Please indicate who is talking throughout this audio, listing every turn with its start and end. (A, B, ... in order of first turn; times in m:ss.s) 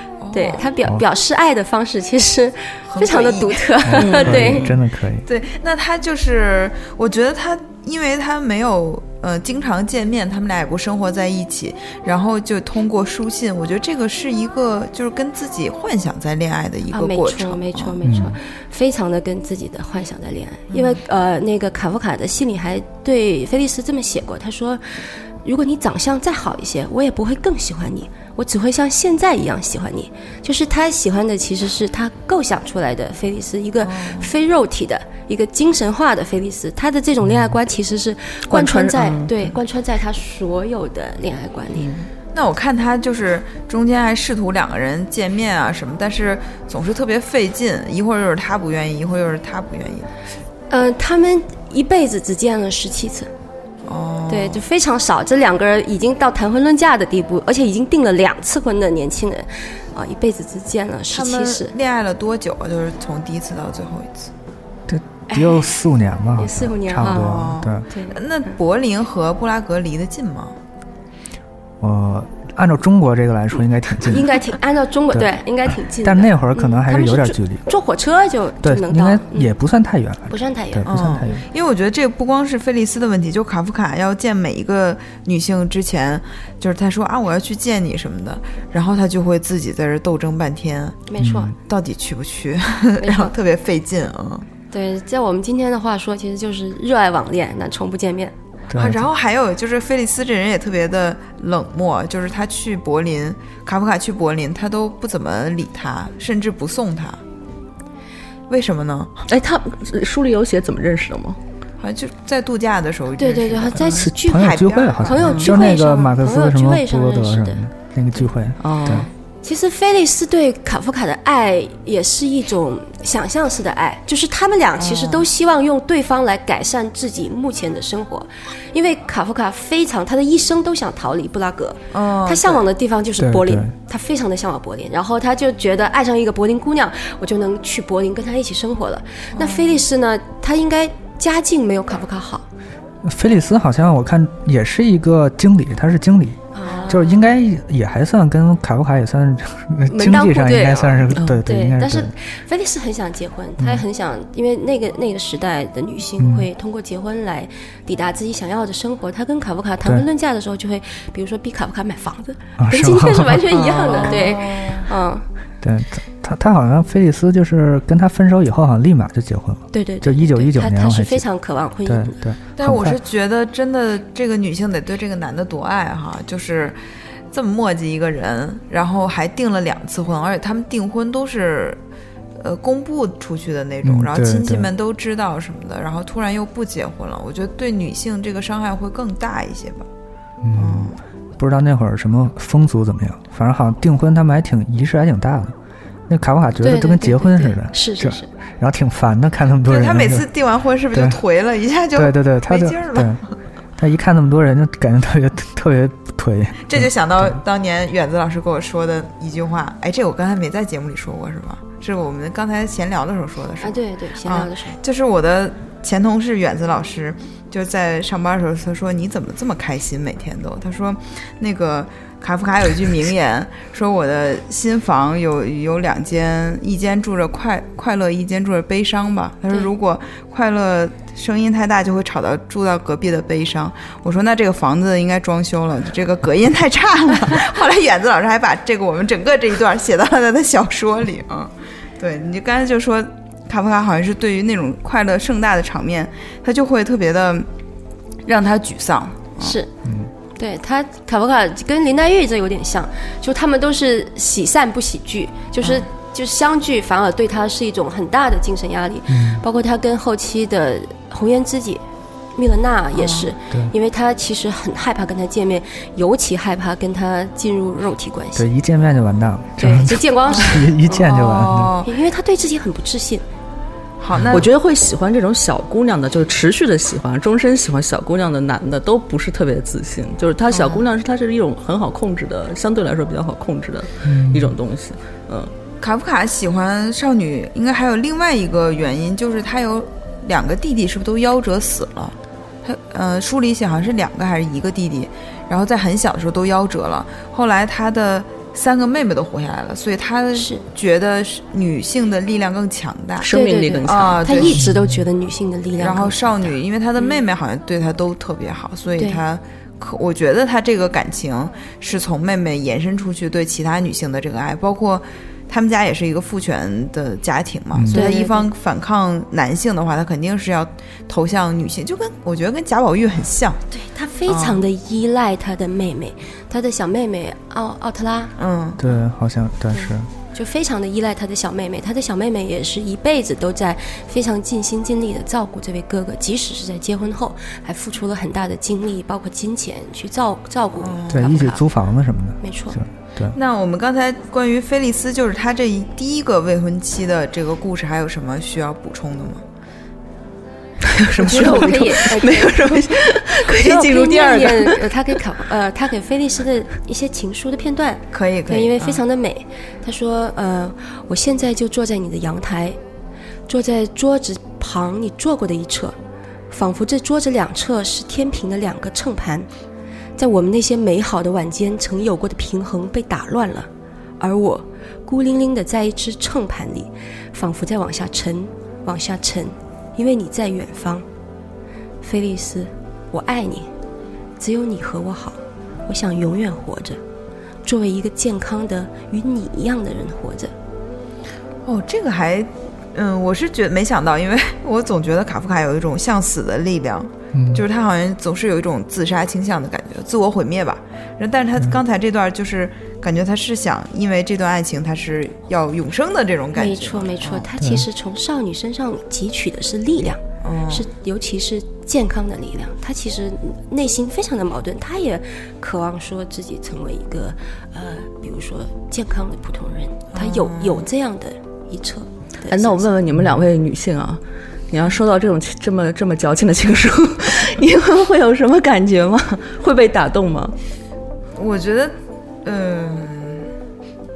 0:00.2-0:00.7 A
0:00.3-0:04.7 B
0:02.9-0:18.0 A
0:03.8-0:05.3 C
0:04.0-0:04.7 D
0:16.9-0:41.9 B
0:18.0-0:18.4 C
0:20.7-0:21.0 A
0:33.8-0:34.3 A
0:37.2-0:37.5 C
0:38.5-0:39.5 D
0:41.8-0:42.1 D
0:42.3-0:50.1 A
0:50.7-0:53.3 B
0:53.8-0:54.6 A
0:54.3-1:01.7 B
1:01.1-1:04.3 A
1:04.9-1:07.8 C
1:05.3-1:05.7 B
1:06.4-1:08.2 B
1:07.0-1:10.6 A
1:11.8-1:14.4 C
1:14.0-1:19.5 B
1:15.9-1:17.6 C
1:18.6-1:21.4 C
1:20.3-1:21.0 B
1:20.8-1:31.0 A
1:31.1-1:31.5 B
1:31.2-1:31.5 C
1:31.7-1:34.4 A
1:33.0-1:33.3 B
1:34.7-1:38.3 B
1:38.7-1:39.0 C
1:38.7-1:47.2 A
1:48.5-1:49.1 A
1:49.2-1:51.4 D
1:51.8-1:55.6 A
1:53.2-1:57.6 B
1:53.8-1:59.1 C
1:58.6-1:59.1 D
1:59.4-2:22.4 B
2:04.8-2:05.3 A
2:11.9-2:12.6 A
2:13.2-2:13.7 C
2:19.3-2:19.8 A
2:23.0-2:32.1 C
2:26.5-2:27.2 B
2:29.9-2:45.2 B
2:31.1-2:31.4 D
2:33.6-2:33.8 C
2:36.2-2:36.5 C
2:42.6-2:43.7 C
2:43.5-2:44.9 A
2:45.6-2:51.2 C
2:49.7-2:52.2 B
2:51.8-2:53.0 C
2:52.6-2:56.8 A
2:57.3-3:01.8 A
3:02.4-3:09.8 A
3:03.8-3:04.7 C
3:10.4-3:15.5 C
3:10.5-3:11.0 A
3:16.1-3:20.3 C
3:16.6-3:18.3 B
3:19.7-3:23.2 A
3:20.9-3:21.2 C
3:21.9-3:23.2 C
3:23.8-3:27.4 C
3:26.6-4:07.5 A
3:33.6-3:34.8 B
4:08.2-4:09.6 A
4:09.4-4:09.7 B
4:09.8-4:10.1 C
4:10.4-4:21.8 B
4:15.6-4:15.9 A
4:19.1-4:19.4 C
4:22.4-4:28.5 B
4:22.9-4:23.3 A
4:28.4-4:31.7 C
4:29.6-4:30.7 B
4:30.3-4:31.9 A
4:31.8-4:33.2 B
4:34.0-4:34.5 A
4:34.3-4:45.5 D
4:40.5-4:40.9 A
4:44.0-4:44.6 C
4:45.8-5:03.3 A
5:00.3-5:00.6 B
5:03.2-5:04.4 D
5:03.3-5:07.2 B
5:03.8-5:04.6 A
5:04.6-5:05.0 C
5:05.8-5:23.6 A
5:17.7-5:18.0 C
5:17.9-5:18.5 B
5:23.7-5:28.3 B
5:24.3-5:24.6 A
5:28.4-5:28.8 A
5:28.8-5:30.1 C
5:29.7-5:41.6 B
5:40.8-5:41.4 A
5:41.1-5:43.4 C
5:42.4-5:42.8 B
5:43.3-5:49.4 A
5:50.8-5:54.9 D
5:51.2-5:51.9 A
5:51.2-5:52.9 B
5:53.5-6:02.8 B
5:58.1-5:59.0 A
6:03.5-6:06.0 B
6:06.5-6:09.5 B
6:10.2-6:13.7 B
6:14.2-6:21.0 B
6:22.0-6:23.7 B
6:24.4-6:27.0 B
6:27.6-6:30.5 B
6:31.6-6:47.5 A
6:37.3-6:37.6 C
6:46.5-7:02.8 B
6:47.6-6:47.9 C
6:50.4-6:50.9 A
7:00.1-7:00.8 A
7:02.5-7:10.5 D
7:11.4-7:13.5 A